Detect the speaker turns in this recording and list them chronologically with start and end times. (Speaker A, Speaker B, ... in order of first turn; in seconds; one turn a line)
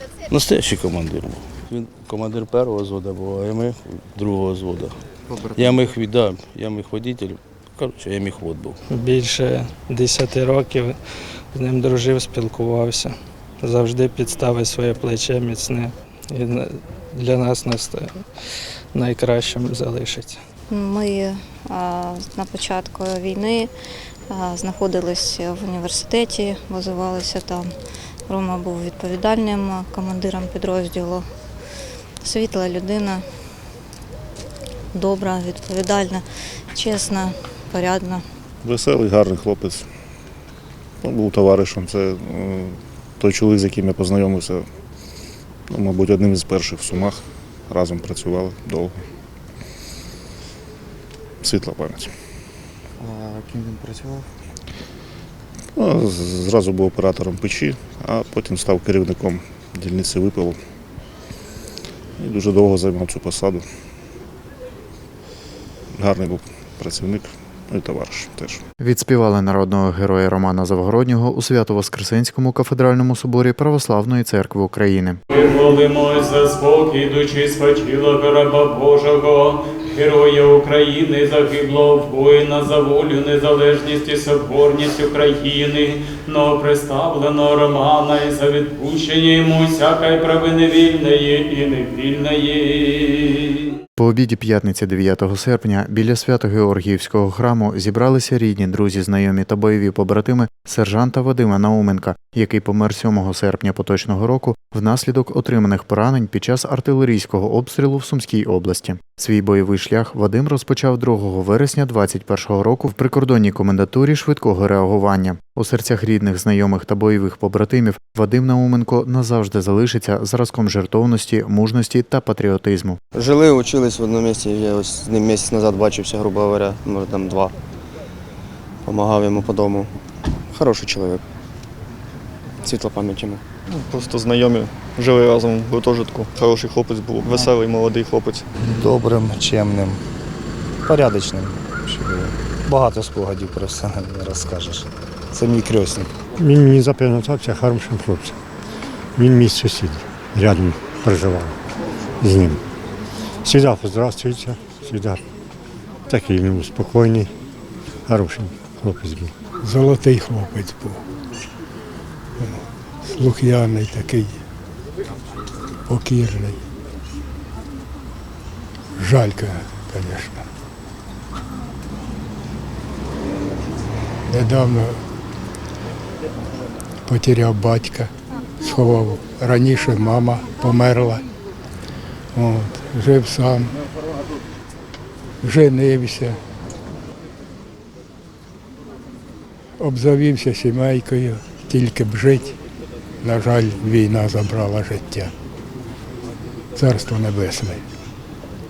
Speaker A: 0.3-5.0
Speaker A: 5.5-8.8
Speaker B: 8.9-11.0
Speaker B: 11.5-18.1
Speaker B: 18.9-20.4
Speaker C: 20.7-23.7
Speaker C: 24.3-27.7
Speaker C: 28.3-31.3
Speaker C: 32.2-33.2
Speaker C: 34.9-38.2
Speaker D: 38.6-39.9
Speaker D: 41.0-44.7
Speaker D: 45.7-49.0
Speaker D: 51.4-52.1
Speaker E: 53.0-54.2
Speaker D: 55.8-60.6
Speaker D: 62.2-63.6
Speaker D: 66.0-68.6
Speaker F: 68.8-75.2
Speaker G: 75.3-93.6
Speaker F: 94.0-123.0
Speaker E: 123.1-127.5
Speaker E: 128.8-129.9
Speaker E: 130.5-131.2
Speaker E: 132.6-133.4
Speaker H: 133.7-138.4
Speaker I: 138.6-140.0
Speaker I: 140.9-146.1
Speaker J: 146.4-148.4
Speaker J: 149.2-151.6
Speaker J: 152.2-152.6
Speaker J: 153.4-155.2
Speaker J: 156.1-157.3
Speaker J: 158.1-159.3
Speaker K: 159.6-161.0
Speaker K: 162.4-164.3
Speaker K: 165.9-166.6
Speaker K: 169.1-170.4
Speaker K: 174.3-174.9
Speaker K: 177.1-178.1
Speaker K: 178.7-181.2
Speaker K: 182.4-183.7
Speaker K: 185.4-186.3
Speaker K: 189.8-192.5
Speaker K: 193.2-195.3
Speaker K: 196.8-197.8